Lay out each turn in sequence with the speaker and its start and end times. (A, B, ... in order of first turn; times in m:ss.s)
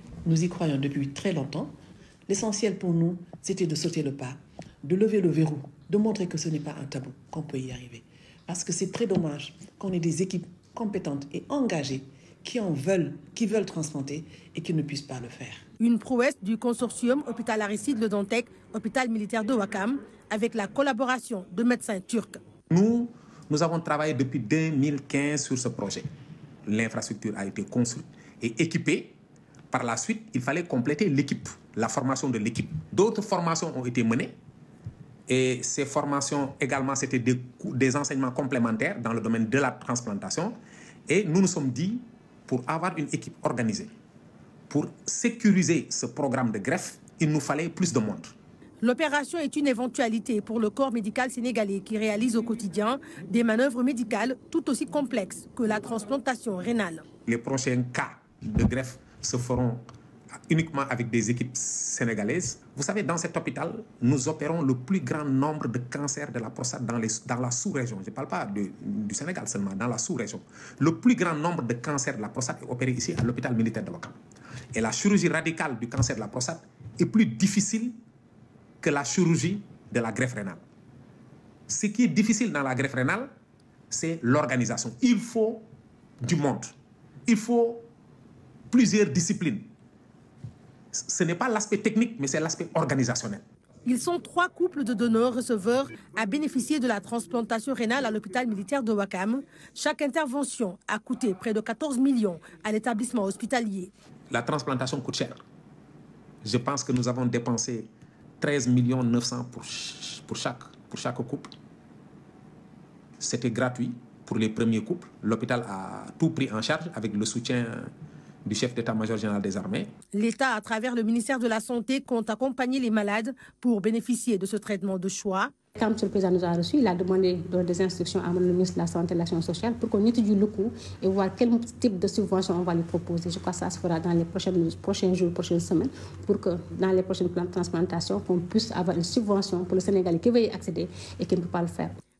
0:00.2-0:01.8 A
0:02.3-0:15.6 A
0:15.8-0:22.4 B
0:22.7-0:26.1 C
0:26.6-0:29.2 C
0:29.7-0:34.3 C
0:35.3-0:43.9 C
0:44.7-0:48.3 C
0:48.8-0:57.0 B
0:57.2-0:59.8 C
1:00.4-1:14.2 C
1:14.7-1:18.0 C
1:18.8-1:20.6 C
1:21.7-1:23.3 C
1:23.9-1:25.7 C
1:26.2-1:26.7 C
1:27.3-1:27.9 C
1:28.7-1:29.7 C
1:30.9-1:33.4 C
1:33.8-1:43.9 B
1:44.3-1:45.4 C
1:46.4-1:51.5 C
1:53.2-1:57.9 C
1:58.4-1:59.9 C
2:00.1-2:05.5 B
2:05.8-2:22.0 D